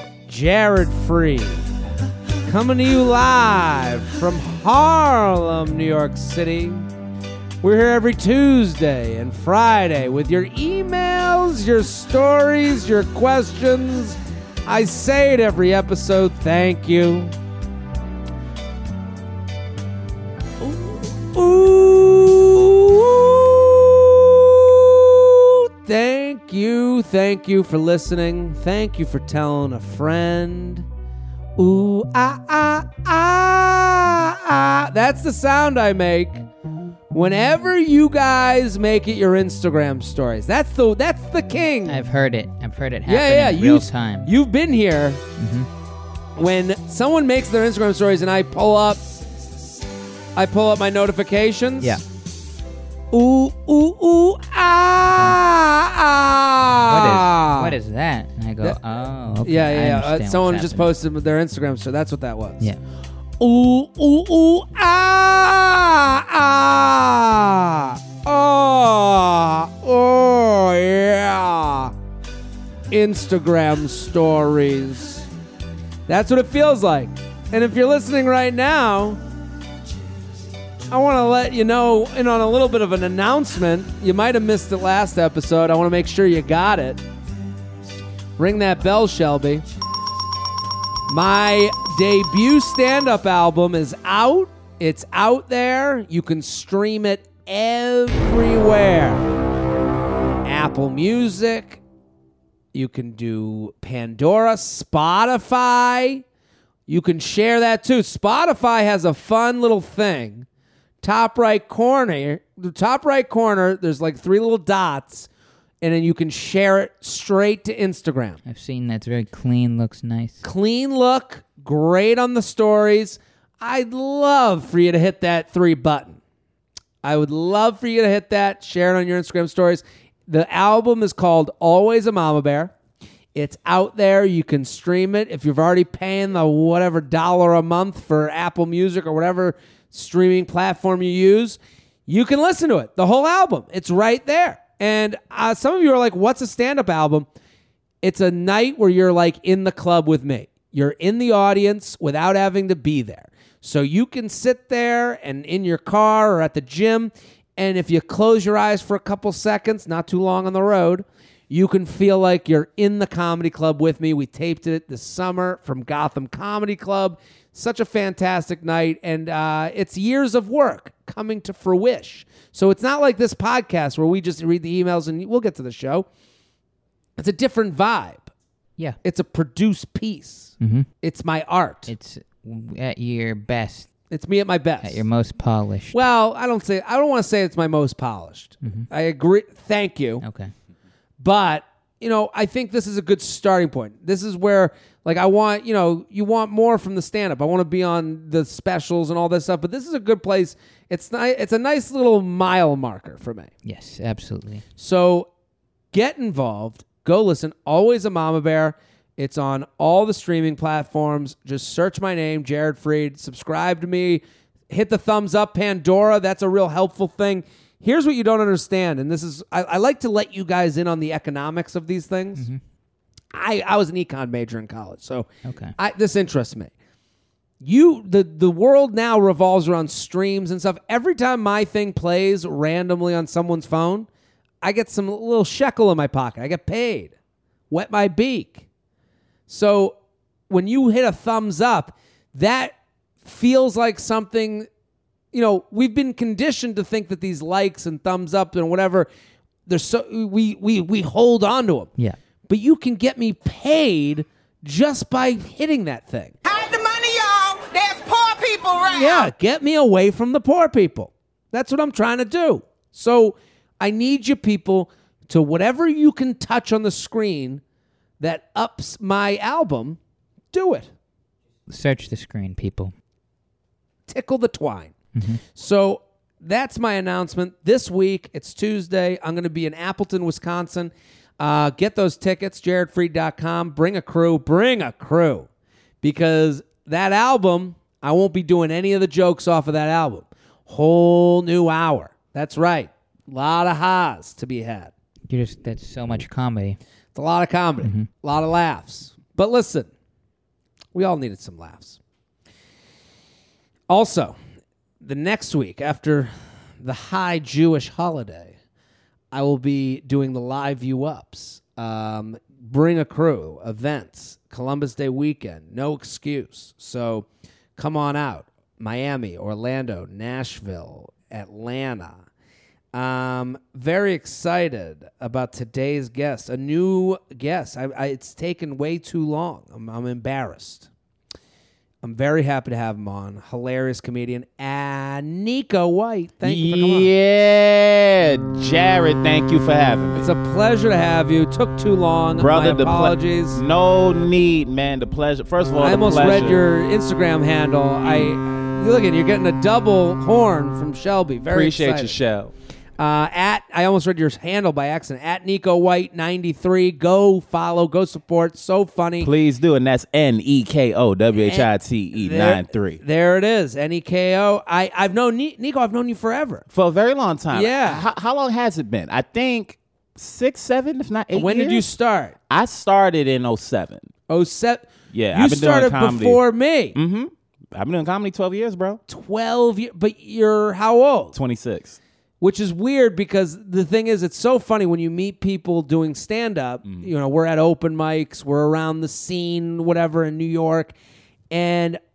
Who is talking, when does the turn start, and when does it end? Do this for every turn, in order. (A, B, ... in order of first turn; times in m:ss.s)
0:00.3-0:01.6 A
0:02.5-0:06.9 A
0:07.6-0:17.3 A
0:20.6-0:30.8 A
0:31.6-0:36.4 A
0:37.1-0:42.0 A
0:41.9-0:44.3 B
0:43.1-0:45.2 A
0:45.4-0:45.7 B
0:46.4-0:49.0 A
0:50.4-0:52.0 A
0:53.1-0:57.7 A
0:55.1-0:55.4 B
0:56.8-1:00.9 B
0:59.4-1:02.6 A
1:03.4-1:11.9 A
1:12.9-1:15.3 A
1:16.1-1:19.2 A
1:20.9-1:27.0 A
1:28.4-1:29.6 A
1:31.1-1:39.3 A
1:40.4-1:41.8 A
1:42.7-1:46.2 A
1:46.9-1:50.5 A
1:51.0-1:55.3 A
1:55.8-1:58.4 A
1:58.5-2:00.4 B
2:00.4-2:06.2 A
2:07.0-2:12.7 A
2:13.3-2:27.3 A
2:28.0-2:56.1 A
2:57.2-2:58.3 A
2:59.0-3:01.9 A
3:00.6-3:00.9 B
3:01.9-3:03.9 B
3:04.1-3:05.0 A
3:04.8-3:06.0 B
3:05.9-3:10.2 A
3:10.2-3:10.5 B
3:11.2-3:23.5 A
3:23.6-3:24.6 B
3:24.8-3:25.3 A
3:25.9-3:42.5 A
3:43.3-3:46.7 A
3:45.4-3:45.8 B
3:47.6-3:54.1 A
3:54.6-3:57.1 A
3:57.7-3:58.6 A
3:59.5-4:00.0 A
4:00.5-4:04.7 A
4:05.3-4:09.1 A
4:09.7-4:11.9 A
4:12.5-4:16.4 A
4:16.4-4:19.3 C
4:18.9-4:27.6 A
4:28.2-4:30.0 A
4:30.5-4:30.9 A
4:31.7-4:32.9 B
4:34.1-4:34.9 A
4:35.2-4:35.4 B
4:35.5-4:45.5 A
4:46.0-4:54.9 A
4:55.3-4:56.8 B
4:57.1-4:59.9 A
4:57.8-4:58.1 B
5:00.9-5:02.0 A
5:03.9-5:04.4 A
5:05.0-5:08.6 A
5:09.3-5:22.2 A
5:22.9-5:30.9 A
5:32.0-5:37.1 A
5:36.4-5:40.3 D
5:40.2-5:43.6 A
5:42.4-5:46.6 D
5:45.8-5:52.2 A
5:48.0-5:48.3 D
5:51.5-5:52.5 D
5:53.0-5:59.3 A
5:59.2-6:03.0 D
6:01.4-6:06.6 A
6:06.7-6:11.8 D
6:07.5-6:08.0 A
6:11.3-6:12.4 A
6:12.5-6:14.1 D
6:14.3-6:17.0 A
6:15.1-6:16.4 D
6:16.9-6:19.0 D
6:19.1-6:21.4 A
6:21.3-6:22.0 D
6:22.4-6:31.0 A
6:31.5-6:32.0 A